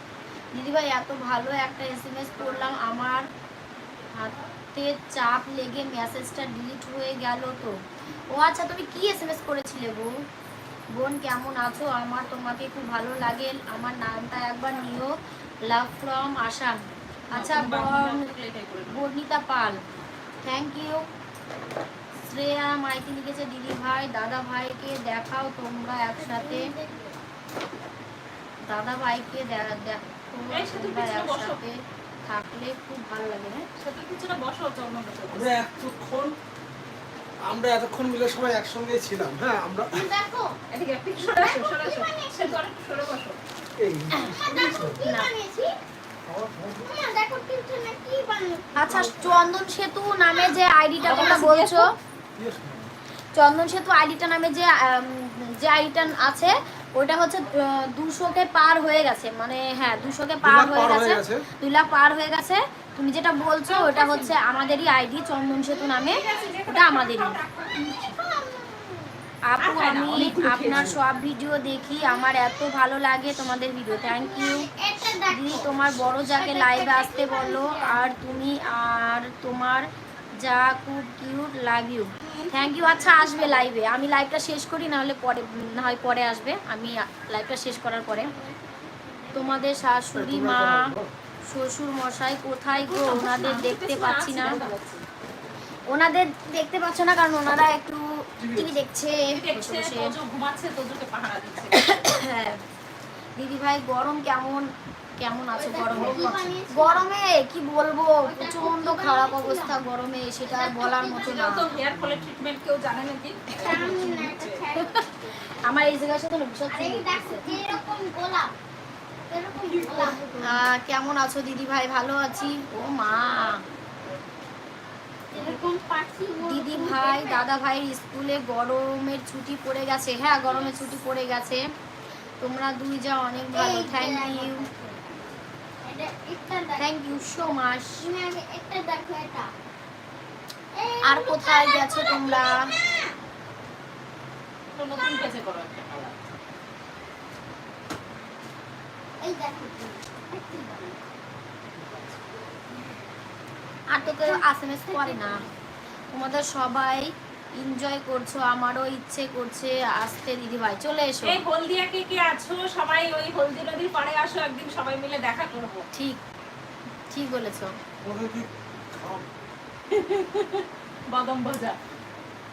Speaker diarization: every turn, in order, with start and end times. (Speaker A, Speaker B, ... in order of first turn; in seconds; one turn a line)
Speaker A: 0.5-3.3
Speaker A: 4.1-7.8
Speaker A: 8.3-10.2
Speaker A: 10.9-15.1
Speaker A: 15.7-18.3
Speaker B: 17.3-19.0
Speaker A: 18.9-19.8
Speaker A: 20.4-21.1
Speaker A: 22.2-26.7
Speaker C: 26.2-27.2
Speaker A: 28.7-33.7
Speaker B: 30.5-31.6
Speaker B: 33.8-35.5
Speaker D: 35.3-36.3
Speaker D: 37.5-40.0
Speaker C: 39.9-40.5
Speaker B: 40.7-43.4
Speaker C: 41.2-42.6
Speaker D: 43.8-45.0
Speaker C: 44.2-45.7
Speaker D: 46.3-46.9
Speaker C: 46.8-49.4
Speaker A: 48.8-51.9
Speaker C: 50.2-51.5
Speaker B: 51.0-51.9
Speaker D: 52.4-52.8
Speaker A: 53.4-67.4
Speaker D: 60.4-61.4
Speaker B: 63.7-64.4
Speaker C: 65.7-66.0
Speaker B: 66.0-68.1
Speaker C: 67.8-69.2
Speaker A: 69.5-79.9
Speaker B: 69.6-71.0
Speaker C: 72.0-72.6
Speaker C: 73.9-78.0
Speaker A: 80.4-88.3
Speaker C: 82.2-83.7
Speaker C: 88.1-89.7
Speaker A: 89.3-90.9
Speaker D: 90.1-91.1
Speaker A: 91.5-94.7
Speaker B: 92.8-95.0
Speaker A: 95.9-100.1
Speaker D: 98.4-98.8
Speaker B: 99.2-101.8
Speaker A: 101.7-102.6
Speaker A: 103.4-111.7
Speaker C: 105.6-107.0
Speaker D: 105.9-106.6
Speaker C: 108.2-109.8
Speaker C: 110.5-111.7
Speaker B: 111.2-114.6
Speaker D: 111.9-112.2
Speaker C: 113.5-115.0
Speaker A: 114.8-117.8
Speaker C: 116.7-118.5
Speaker C: 119.3-120.7
Speaker B: 119.7-120.2
Speaker A: 120.4-123.6
Speaker C: 125.3-127.4
Speaker A: 126.4-131.6
Speaker C: 130.4-131.0
Speaker A: 132.4-134.7
Speaker C: 133.5-135.3
Speaker C: 135.8-137.2
Speaker A: 136.8-138.1
Speaker C: 138.0-139.5
Speaker C: 140.8-143.2
Speaker A: 141.0-142.7
Speaker B: 144.8-146.2
Speaker C: 149.2-151.0
Speaker D: 151.8-152.2
Speaker A: 153.9-155.4
Speaker C: 154.0-155.6
Speaker A: 156.1-161.4
Speaker B: 161.2-165.9
Speaker A: 165.9-166.2
Speaker A: 167.1-167.8
Speaker D: 168.0-169.3
Speaker B: 169.9-171.8